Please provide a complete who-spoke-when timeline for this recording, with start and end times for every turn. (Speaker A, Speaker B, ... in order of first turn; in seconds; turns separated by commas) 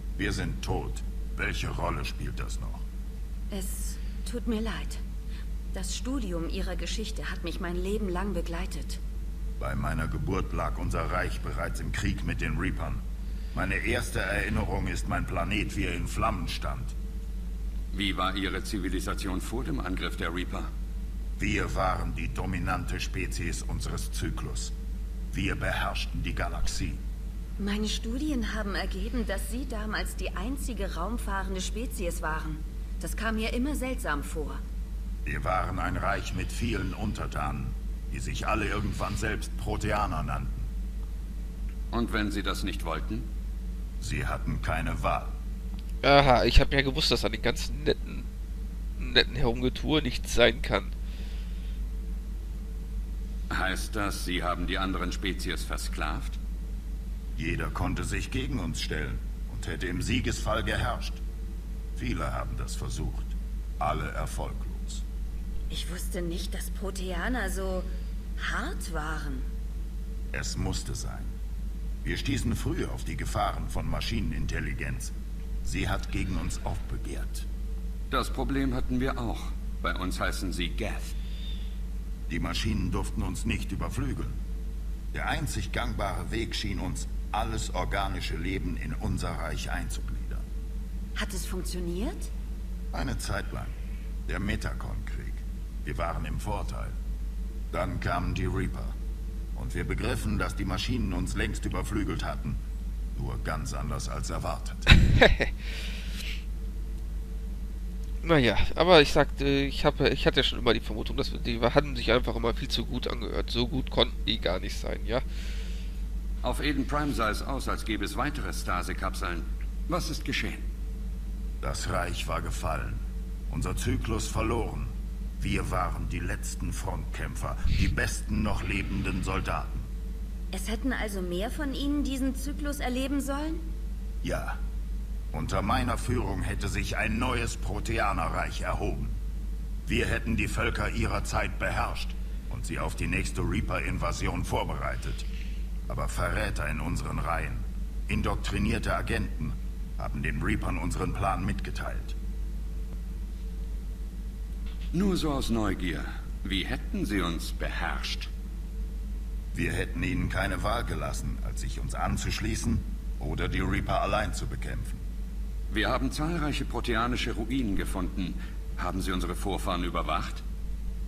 Speaker A: 0.2-2.9, Speaker B: 3.5-5.0, Speaker B: 5.7-9.0, Speaker A: 9.6-16.9, Speaker C: 17.9-20.7, Speaker A: 21.4-24.8, Speaker A: 25.3-27.0, Speaker B: 27.6-34.6, Speaker A: 35.2-40.7, Speaker C: 41.9-43.3, Speaker A: 44.0-45.4, Speaker D: 46.0-48.3, Speaker D: 49.0-50.9, Speaker C: 53.5-56.4, Speaker A: 57.4-61.2, Speaker A: 62.0-65.0, Speaker B: 65.7-69.5, Speaker A: 70.3-71.3, Speaker A: 72.0-77.5, Speaker C: 78.1-81.2, Speaker A: 82.3-84.4, Speaker A: 85.1-90.5, Speaker B: 91.2-92.3, Speaker A: 92.9-93.8, Speaker A: 94.3-97.0, Speaker A: 97.7-99.0, Speaker A: 99.5-102.6, Speaker A: 103.2-104.9, Speaker D: 105.1-105.5, Speaker D: 108.2-115.2, Speaker C: 116.4-120.7, Speaker A: 121.6-129.9, Speaker B: 130.5-133.7, Speaker A: 134.2-134.6, Speaker A: 135.3-139.2, Speaker A: 139.8-145.3, Speaker A: 145.9-152.2, Speaker C: 154.9-158.3, Speaker A: 159.5-165.1, Speaker C: 165.7-170.4